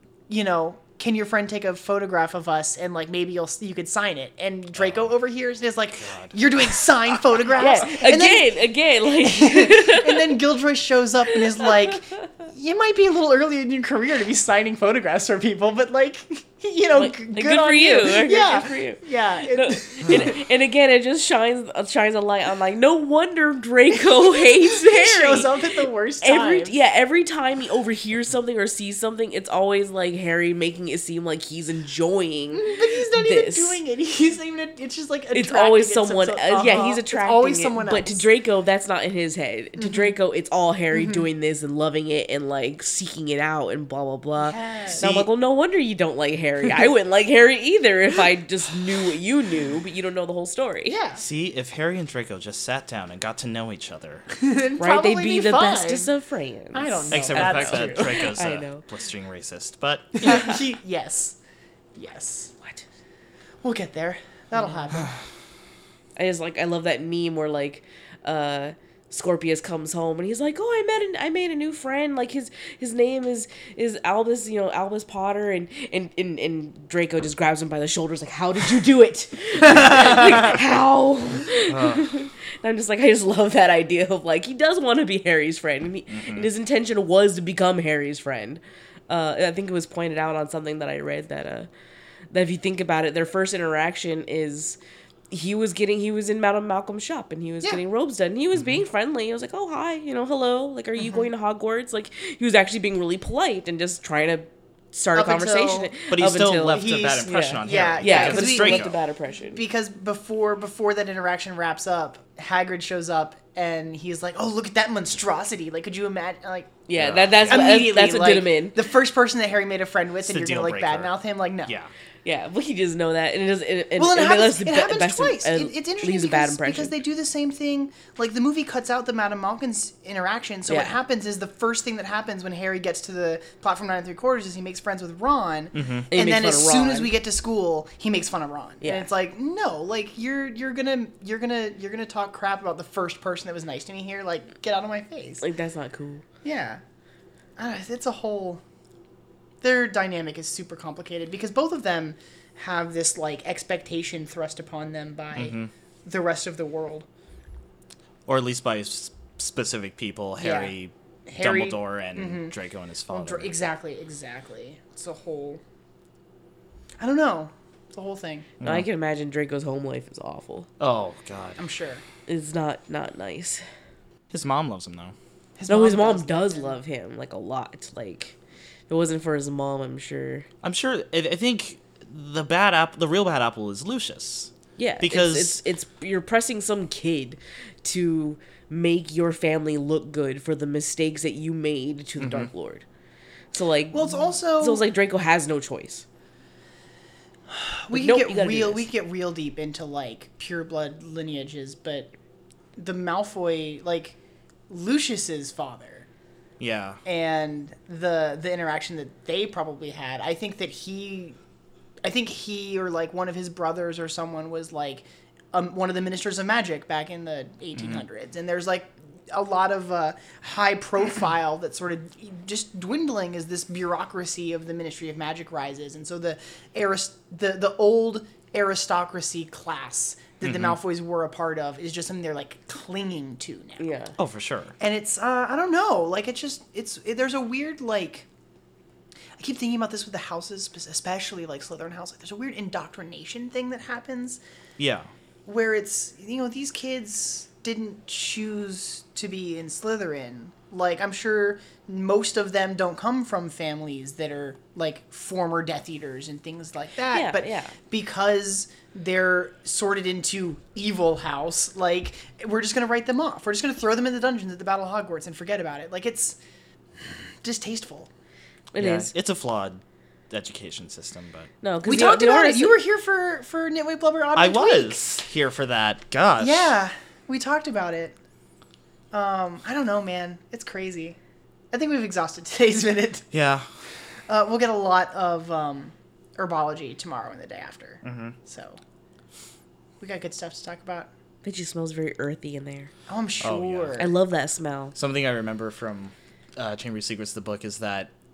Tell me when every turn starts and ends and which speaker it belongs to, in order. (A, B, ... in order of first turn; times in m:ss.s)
0:00.3-0:08.5 A
0:04.8-0:05.1 B
0:05.9-0:06.8 B
0:07.5-0:10.4 C
0:09.1-0:20.3 A
0:11.3-0:12.2 C
0:16.9-0:25.5 C
0:20.1-0:20.3 B
0:23.9-0:26.7 A
0:26.2-0:33.8 C
0:32.5-0:38.2 A
0:35.3-0:51.0 C
0:39.8-0:40.1 A
0:40.9-0:41.2 A
0:44.4-0:45.0 A
0:45.0-0:45.3 B
0:50.9-0:51.2 A
0:51.1-0:54.2 B
0:54.3-0:56.1 A
0:54.8-0:58.9 C
0:56.7-0:58.3 A
0:57.1-1:00.6 B
1:00.2-1:01.4 A
1:00.2-1:00.5 C
1:02.0-1:02.5 A
1:03.6-1:05.1 A
1:06.2-1:31.7 C
1:19.9-1:20.2 A
1:21.7-1:22.1 B
1:26.1-1:26.5 B
1:32.3-1:34.8 C
1:35.3-1:49.6 C
1:41.0-1:41.3 A
1:45.1-1:45.9 A
1:46.1-1:49.0 B
1:46.7-1:48.9 A
1:49.5-1:56.8 A
1:56.9-1:58.8 C
1:57.0-1:57.8 B
1:57.4-2:01.7 A
2:00.3-2:01.1 B
2:01.6-2:01.9 B
2:02.2-2:07.0 C
2:04.0-2:25.4 A
2:10.7-2:11.0 C
2:15.7-2:16.1 B
2:16.1-2:17.1 C
2:18.8-2:19.1 C
2:25.4-2:26.2 C
2:26.4-2:26.8 A
2:27.6-2:28.6 A
2:29.6-2:37.0 A
2:35.3-2:35.7 B
2:38.3-2:43.5 B
2:40.4-2:40.7 A
2:41.3-2:42.5 A
2:43.1-2:45.6 A
2:47.0-2:48.5 A
2:48.6-2:48.8 B
2:48.6-2:50.7 C
2:50.8-2:51.6 B
2:51.6-2:52.0 A
2:52.3-2:53.6 C
2:54.3-2:55.1 B
2:55.6-2:56.8 A
2:55.7-2:58.4 C
2:58.9-3:00.5 C
3:00.6-3:05.6 B
3:04.8-3:12.8 C
3:12.2-3:12.5 B
3:13.5-3:16.0 C
3:13.9-3:14.8 A
3:17.5-3:22.1 A
3:17.9-3:18.8 C
3:22.8-3:24.2 A
3:24.7-3:26.0 A
3:26.6-3:27.0 B
3:27.0-3:31.4 A
3:32.0-3:53.9 A
3:37.8-3:38.0 B
3:50.4-3:50.8 B
3:53.8-3:54.2 C
3:54.2-3:54.7 B
3:54.8-3:58.3 A
3:59.4-4:04.4 A
4:04.8-4:05.1 B
4:05.4-4:26.4 A
4:17.1-4:17.8 C
4:27.0-4:28.1 A
4:28.7-4:29.1 C
4:28.8-4:31.5 B
4:31.6-4:32.8 C
4:31.8-4:35.0 A
4:34.3-4:36.7 B
4:36.4-4:38.1 A
4:39.1-4:41.2 A
4:41.7-4:43.3 A
4:43.3-4:43.6 B
4:44.3-4:48.8 A
4:48.0-4:48.4 B
4:50.0-4:51.1 A
4:51.4-4:52.9 C
4:53.1-4:54.1 A
4:53.4-4:54.0 B
4:54.0-4:54.9 C
4:54.9-4:58.1 B